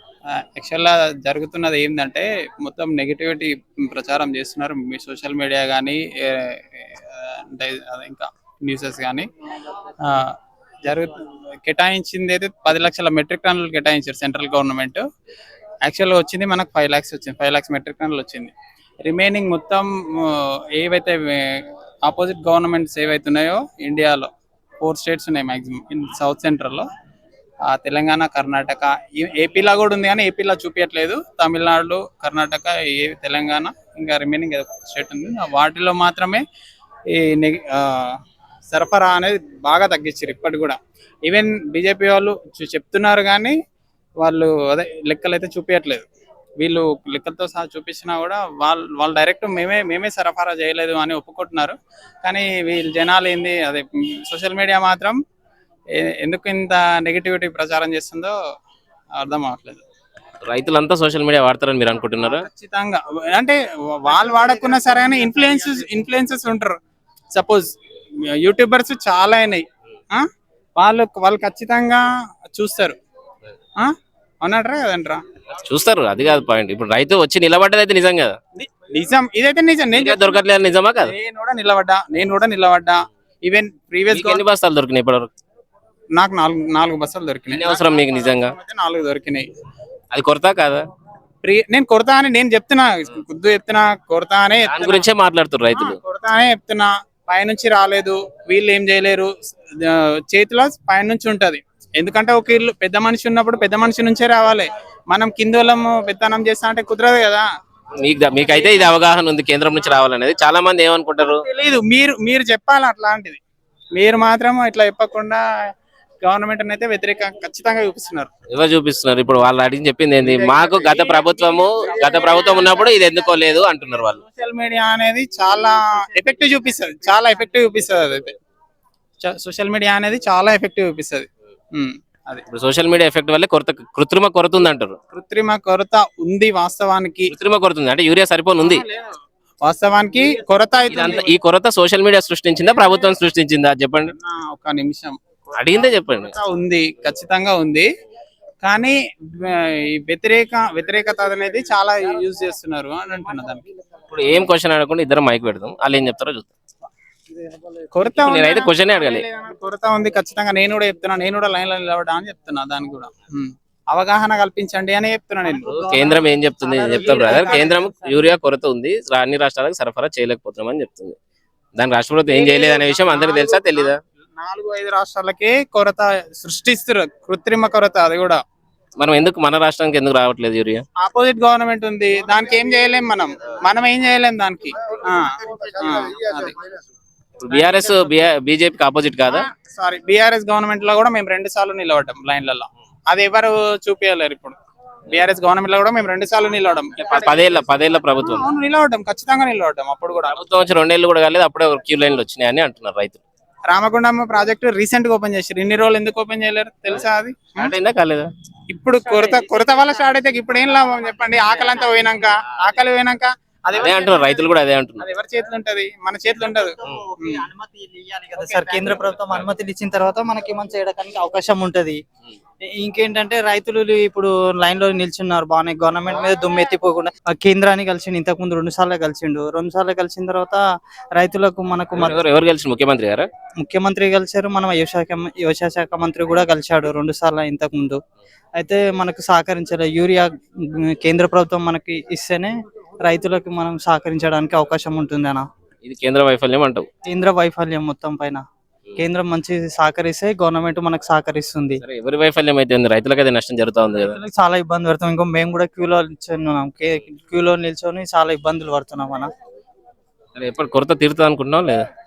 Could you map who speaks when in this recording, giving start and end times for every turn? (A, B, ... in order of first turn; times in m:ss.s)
0:00.3-0:09.3 A
0:10.0-0:15.0 A
0:15.9-0:18.5 A
0:19.0-0:24.3 A
0:24.8-0:26.9 A
0:27.7-0:36.4 A
0:37.1-0:38.2 A
0:38.7-0:43.6 A
0:44.2-0:46.1 A
0:46.6-0:55.2 A
0:56.0-0:58.3 A
0:59.2-0:59.8 A
1:00.5-1:02.5 B
1:02.2-1:06.8 A
1:07.3-1:07.7 A
1:08.4-1:10.3 A
1:10.8-1:13.0 A
1:13.8-1:15.2 A
1:15.6-1:18.4 B
1:18.6-1:20.4 A
1:19.9-1:21.1 B
1:21.0-1:24.4 A
1:24.1-1:25.3 B
1:26.2-1:29.5 A
1:27.5-1:28.6 B
1:30.1-1:30.8 B
1:31.4-1:35.1 A
1:34.7-1:36.0 B
1:35.7-1:47.5 A
1:48.0-1:51.4 B
1:51.3-1:53.4 A
1:54.0-1:55.4 A
1:56.2-1:58.3 A
1:58.5-2:04.2 B
2:00.2-2:03.2 A
2:04.2-2:08.3 A
2:09.2-2:12.4 A
2:12.5-2:15.0 B
2:15.1-2:17.3 A
2:17.3-2:18.8 B
2:18.6-2:21.3 A
2:20.9-2:24.1 B
2:24.2-2:25.2 A
2:25.6-2:26.4 B
2:26.2-2:27.9 A
2:28.6-2:33.6 A
2:34.1-2:36.5 B
2:37.9-2:45.9 A
2:38.2-2:39.2 B
2:45.6-2:48.1 C
2:45.7-2:51.2 B
2:47.0-2:47.8 A
2:51.8-2:54.0 B
2:52.3-2:58.4 A
2:59.0-3:00.8 B
3:01.0-3:06.7 A
3:07.4-3:09.4 B
3:07.5-3:08.0 A
3:09.3-3:14.6 A
3:15.1-3:20.4 A
3:17.1-3:18.5 B
3:20.3-3:23.2 B
3:23.7-3:27.7 A
3:27.6-3:28.3 B
3:28.7-3:34.5 A
3:33.7-3:35.0 B
3:35.0-3:37.5 A
3:37.3-3:42.0 C
3:42.8-3:50.6 C
3:51.2-3:52.2 C
3:52.0-3:53.3 B
3:53.6-3:58.0 C
3:58.6-4:05.5 C
4:05.8-4:06.9 B
4:07.1-4:08.4 C
4:09.0-4:11.8 C
4:11.8-4:14.2 B
4:14.0-4:19.3 C
4:20.4-4:21.8 B